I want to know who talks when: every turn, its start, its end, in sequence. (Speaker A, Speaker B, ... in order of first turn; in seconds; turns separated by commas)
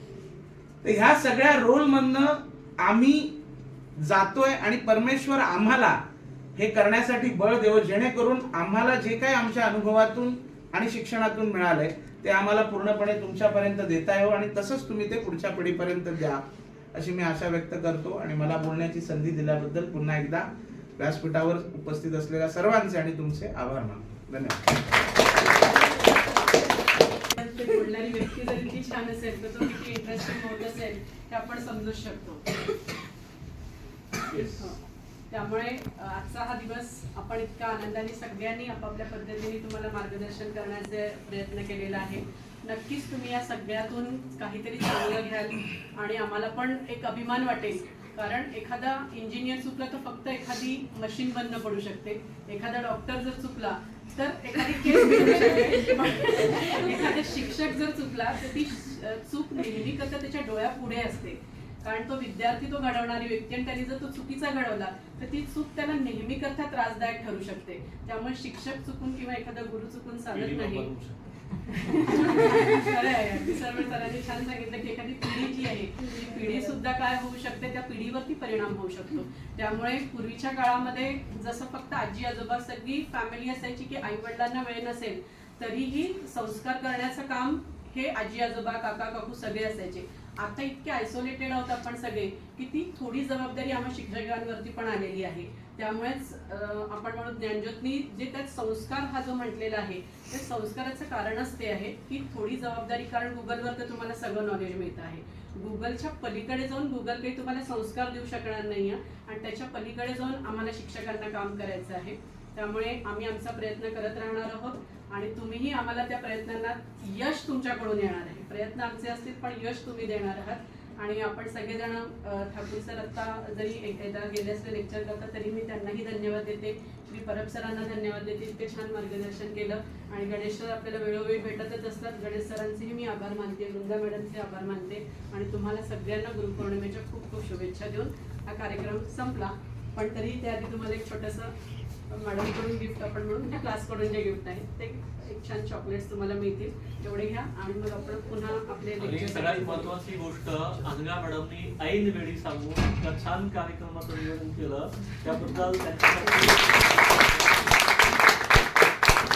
Speaker A: 0.8-3.3, Speaker A: 4.0-6.0, Speaker A: 6.5-16.4, Speaker A: 16.9-24.7, Speaker B: 27.3-32.6, Speaker C: 34.2-34.7, Speaker B: 34.5-34.8, Speaker B: 35.3-70.9, Speaker C: 70.3-71.2, Speaker B: 71.7-141.5, Speaker B: 142.1-149.9, Speaker C: 149.0-157.7